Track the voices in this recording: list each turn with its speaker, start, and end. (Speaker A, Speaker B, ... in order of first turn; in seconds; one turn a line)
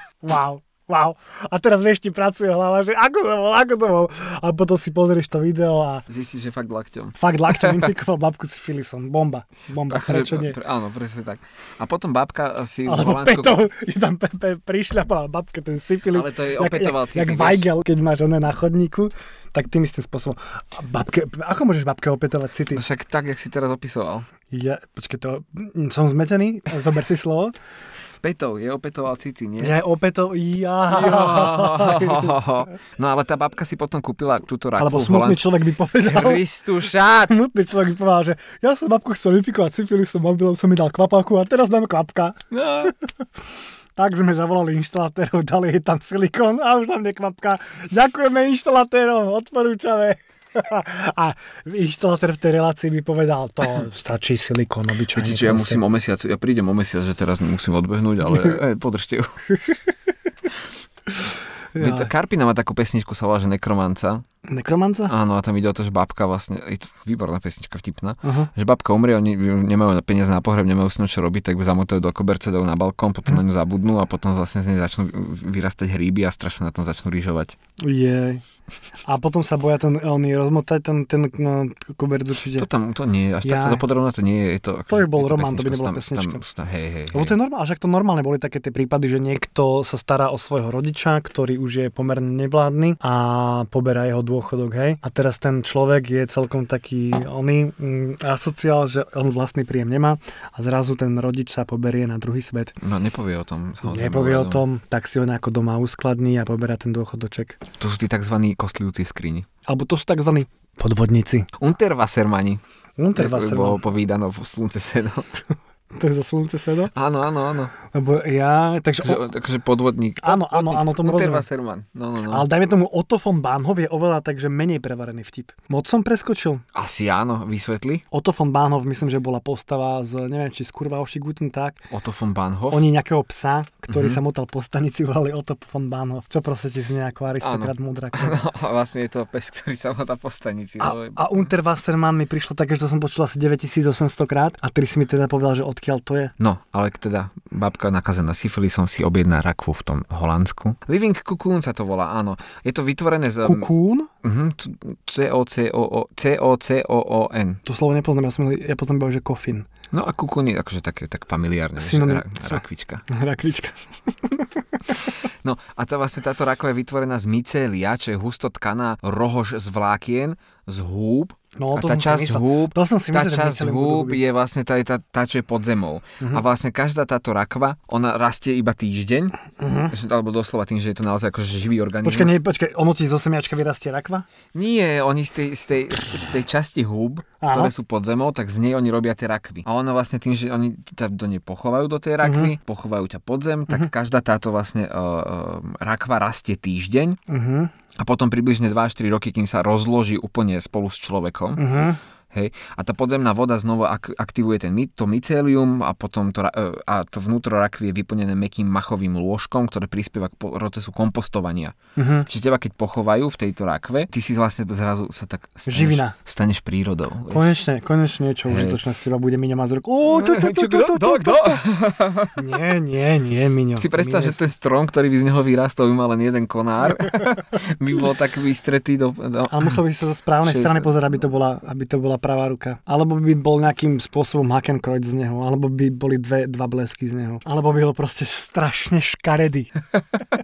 Speaker A: 0.2-6.0
Speaker B: 6.1-7.9
Speaker A: 7.2-10.6
Speaker B: 9.9-13.6
Speaker A: 12.8-22.8
Speaker B: 16.1-17.7
Speaker B: 22.7-24.3
Speaker A: 24.5-27.5
Speaker B: 28.2-29.8
Speaker A: 29.6-32.3
Speaker B: 30.9-37.4
Speaker A: 34.8-36.4
Speaker A: 37.2-42.9
Speaker B: 42.5-42.9
Speaker A: 44.0-55.8
Speaker B: 55.1-59.4
Speaker A: 61.7-62.1
Speaker B: 61.8-64.2
Speaker A: 64.4-65.1
Speaker B: 65.1-77.5
Speaker A: 68.2-68.5
Speaker A: 77.8-78.4
Speaker A: 79.0-82.7
Speaker B: 82.5-87.4
Speaker A: 83.4-83.8
Speaker A: 84.9-86.4
Speaker A: 87.1-102.8
Speaker B: 102.8-104.6
Speaker A: 103.8-107.6
Speaker B: 107.8-109.5
Speaker A: 109.7-111.5
Speaker B: 111.6-112.6
Speaker A: 113.0-113.8
Speaker B: 113.1-115.3
Speaker A: 115.9-116.9
Speaker B: 116.9-117.7
Speaker A: 117.8-119.2
Speaker B: 119.0-122.5
Speaker A: 120.2-121.5
Speaker A: 122.3-126.6
Speaker B: 126.7-128.0
Speaker A: 128.1-131.8
Speaker B: 131.9-132.8
Speaker A: 132.7-138.4
Speaker B: 133.9-134.2
Speaker B: 137.4-141.5
Speaker A: 140.8-146.3
Speaker B: 146.4-153.7
Speaker A: 153.4-154.1
Speaker B: 154.2-157.6
Speaker A: 157.6-159.7
Speaker B: 159.9-163.0
Speaker A: 161.8-164.9
Speaker B: 165.4-182.4
Speaker A: 171.6-174.2
Speaker A: 179.6-179.9
Speaker A: 182.0-184.2
Speaker B: 184.5-197.2
Speaker A: 187.4-187.7
Speaker A: 192.2-192.5
Speaker A: 197.3-197.7
Speaker B: 198.0-201.8
Speaker A: 201.6-202.0
Speaker B: 202.3-211.8
Speaker A: 212.0-212.3
Speaker B: 212.3-217.5
Speaker A: 215.7-216.2
Speaker A: 217.3-221.6
Speaker B: 218.5-218.8
Speaker B: 220.1-222.4
Speaker A: 222.3-224.4
Speaker B: 223.8-229.8
Speaker A: 229.5-239.7
Speaker B: 230.4-230.9